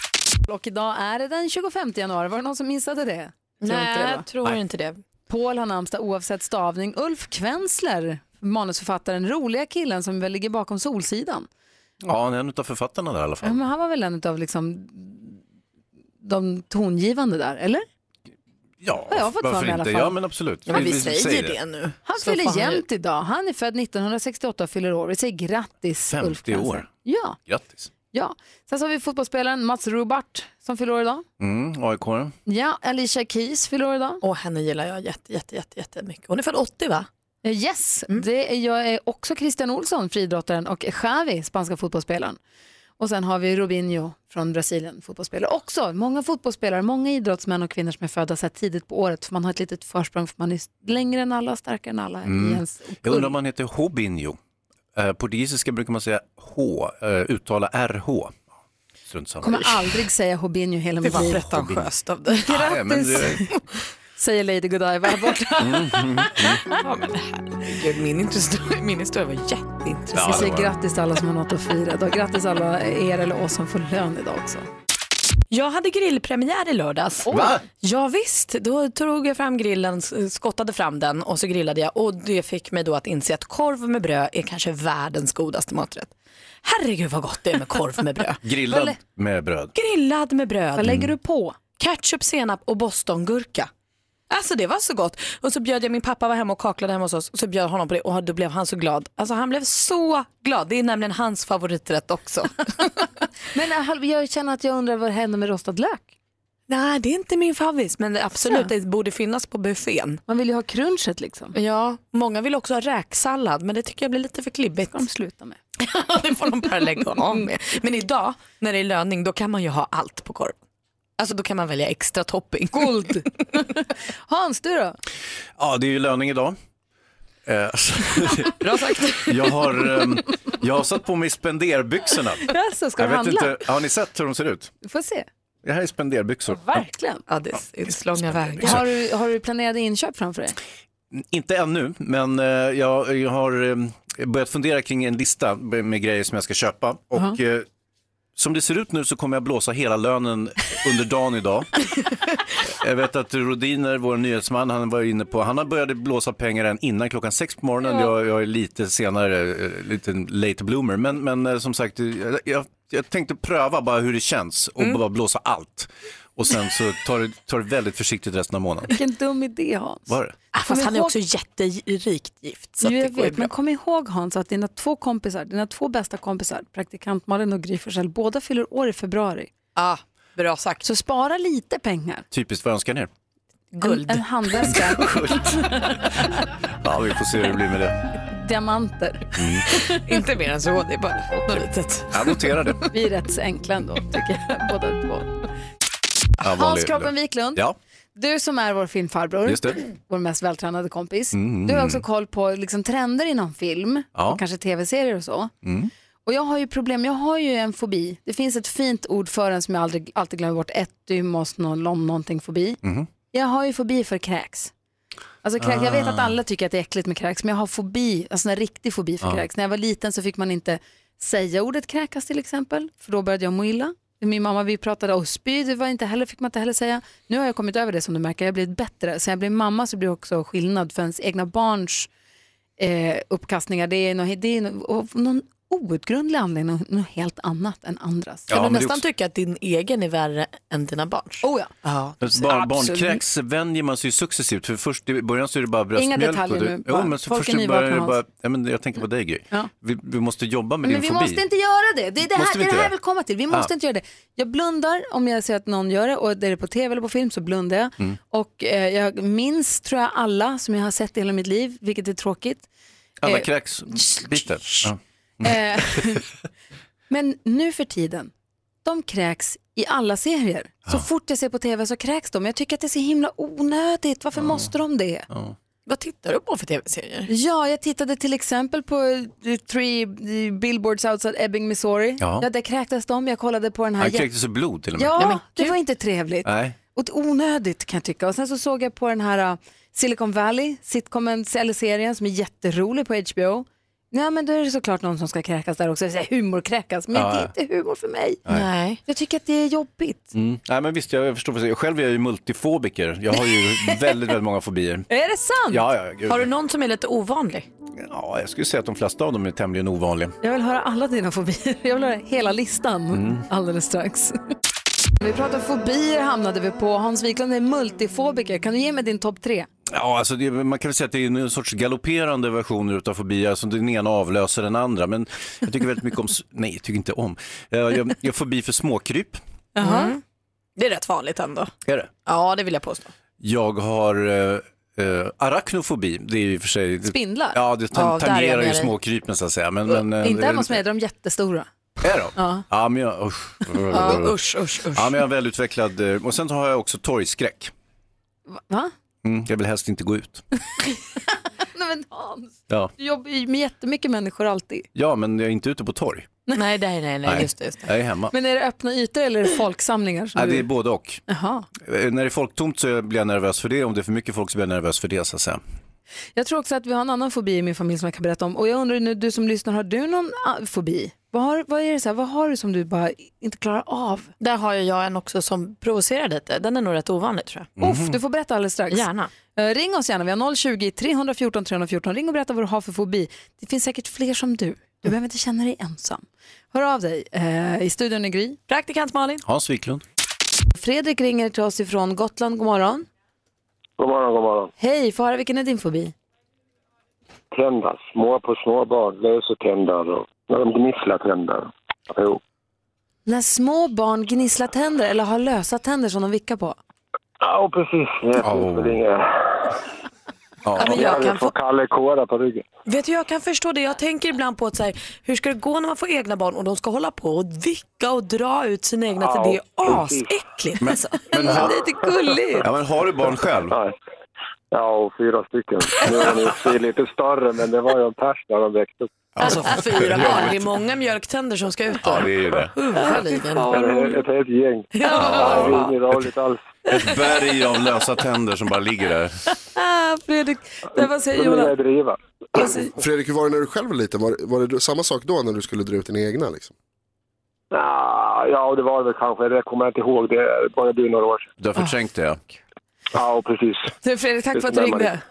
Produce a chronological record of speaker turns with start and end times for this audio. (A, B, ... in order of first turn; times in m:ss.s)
0:00.5-0:04.2 A
0:03.6-0:05.0 B
0:05.3-0:11.5 A
0:12.0-0:13.6 C
0:13.4-0:15.4 A
0:16.2-0:17.8 A
0:18.8-0:21.6 C
0:19.1-0:20.2 A
0:20.7-0:22.8 B
0:22.1-0:27.4 A
0:26.1-0:26.9 C
0:27.5-0:27.9 C
0:28.1-0:31.2 A
0:31.4-0:32.4 C
0:32.5-0:34.2 A
0:34.2-0:37.1 B
0:37.4-0:42.4 A
0:43.0-0:53.4 A
0:52.2-0:54.4 C
0:55.0-0:58.4 C
0:59.1-0:59.6 C
0:59.4-1:01.4 A
1:01.0-1:02.6 B
1:01.2-1:01.9 C
1:02.4-1:03.5 A
1:02.5-1:03.4 C
1:04.2-1:06.5 A
1:05.6-1:06.6 C
1:06.7-1:10.3 B
1:10.1-1:10.7 C
1:10.2-1:14.7 A
1:15.5-1:17.3 B
1:17.3-1:17.6 A
1:17.3-1:17.6 C
1:17.8-1:26.1 B
1:26.6-1:28.4 B
1:28.4-1:29.8 C
1:28.7-1:29.0 A
1:29.8-1:31.0 B
1:30.8-1:31.6 A
1:30.8-1:31.1 C
1:31.8-1:33.7 B
1:34.3-1:43.1 B
1:43.5-1:46.1 A
1:46.7-1:50.2 B
1:48.4-1:48.7 A
1:50.3-1:51.6 A
1:51.6-1:55.0 B
1:54.9-1:55.6 A
1:55.8-2:00.6 B
2:01.2-2:03.2 B
2:02.7-2:03.7 A
2:04.3-2:05.0 A
2:05.6-2:06.6 C
2:07.4-2:08.5 C
2:08.6-2:09.8 B
2:09.3-2:14.7 C
2:12.5-2:13.5 A
2:14.8-2:15.3 A
2:15.6-2:16.8 C
2:16.5-2:17.2 A
2:17.3-2:18.8 B
2:18.6-2:18.8 C
2:18.6-2:20.6 A
2:21.1-2:27.7 C
2:28.4-2:31.7 C
2:32.7-2:48.9 C
2:48.9-2:50.1 A
2:50.1-2:50.4 C
2:50.5-2:53.5 B
2:50.7-2:51.1 A
2:52.8-2:59.5 A
2:59.8-3:00.8 B
3:00.8-3:02.2 A
3:02.3-3:03.1 C
3:03.7-3:06.0 A
3:03.8-3:04.8 B
3:04.8-3:05.6 C
3:06.8-3:08.0 C
3:08.3-3:09.8 A
3:09.4-3:09.7 C
3:09.7-3:12.8 B
3:11.4-3:12.8 C
3:12.9-3:15.4 A
3:16.4-3:17.8 C
3:16.5-3:17.6 A
3:18.2-3:25.5 A
3:19.5-3:19.8 C
3:21.3-3:22.0 C
3:24.2-3:24.4 C
3:25.6-3:25.9 C
3:26.2-3:32.8 A
3:32.8-3:33.1 C
3:33.3-3:34.7 A
3:35.4-3:52.1 A
3:35.6-3:36.4 C
3:52.8-3:58.5 A
3:58.5-3:59.0 C
3:58.5-4:02.3 B
4:01.4-4:01.8 A
4:02.2-4:11.4 C
4:02.5-4:03.2 A
4:06.0-4:08.2 A
4:10.8-4:22.7 A
4:12.3-4:12.9 C
4:23.2-4:26.2 C
4:23.2-4:26.2 A
4:27.1-4:28.3 A
4:28.8-4:35.3 A
4:34.4-4:34.7 C
4:35.3-4:35.6 C
4:35.9-4:37.3 B
4:37.3-4:44.3 A
4:42.2-4:42.5 C
4:44.0-4:45.2 C
4:45.0-4:58.4 A
4:45.2-4:45.8 B
4:46.4-4:46.8 C
4:57.1-4:57.5 C
4:58.5-4:59.0 B
4:59.0-5:00.3 A
5:00.3-5:05.1 C
5:03.4-5:04.2 A
5:05.1-5:05.8 A
5:05.7-5:06.5 C
5:06.3-5:07.7 B
5:08.0-5:10.4 C
5:10.4-5:14.4 A
5:13.1-5:13.4 C
5:15.2-5:19.7 A
5:19.9-5:29.4 C
5:29.8-5:30.1 A
5:29.8-5:30.2 B
5:30.8-5:31.7 B
5:31.9-5:32.1 C
5:32.3-5:33.1 B
5:33.4-5:40.8 C
5:37.1-5:37.6 A
5:37.9-5:38.9 B
5:40.2-5:41.7 A
5:42.0-5:44.4 C
5:42.4-5:42.6 A
5:43.9-5:45.2 B
5:44.9-5:47.7 C
5:48.5-5:48.9 A
5:49.2-5:50.4 C
5:51.7-5:54.9 A
5:55.0-5:56.3 C
5:56.6-5:57.9 B
5:57.2-5:58.3 C
5:58.3-6:00.7 A
6:00.4-6:01.2 C
6:01.3-6:01.7 A
6:01.8-6:05.6 C
6:06.4-6:14.3 A
6:14.4-6:17.7 B
6:17.8-6:18.2 C
6:17.8-6:28.6 A
6:18.9-6:19.3 B
6:28.7-6:29.4 B
6:29.4-6:30.0 C
6:30.8-6:33.1 A
6:34.0-6:34.7 D
6:34.8-6:36.1 A
6:37.5-6:42.4 D
6:43.3-6:46.8 A
6:47.4-6:49.8 D
6:48.4-6:49.0 C
6:50.6-6:51.1 C
6:50.8-6:52.6 D
6:50.8-6:51.2 A
6:50.8-6:51.5 B
6:52.9-7:01.4 B
6:59.2-7:00.3 D
7:00.8-7:01.8 C
7:01.3-7:02.7 A
7:02.6-7:03.8 C
7:04.7-7:09.1 D
7:09.4-7:13.8 B
7:09.4-7:10.6 C
7:12.0-7:12.7 C
7:13.0-7:14.2 A
7:13.7-7:16.6 D
7:15.0-7:15.9 B
7:15.2-7:16.3 C
7:16.9-7:19.3 C
7:20.0-7:21.7 A
7:21.0-7:22.8 D
7:23.0-7:26.7 E
7:27.7-7:31.5 D
7:31.6-7:32.4 C
7:33.1-7:33.9 D
7:34.0-7:35.2 A
7:34.5-7:35.1 D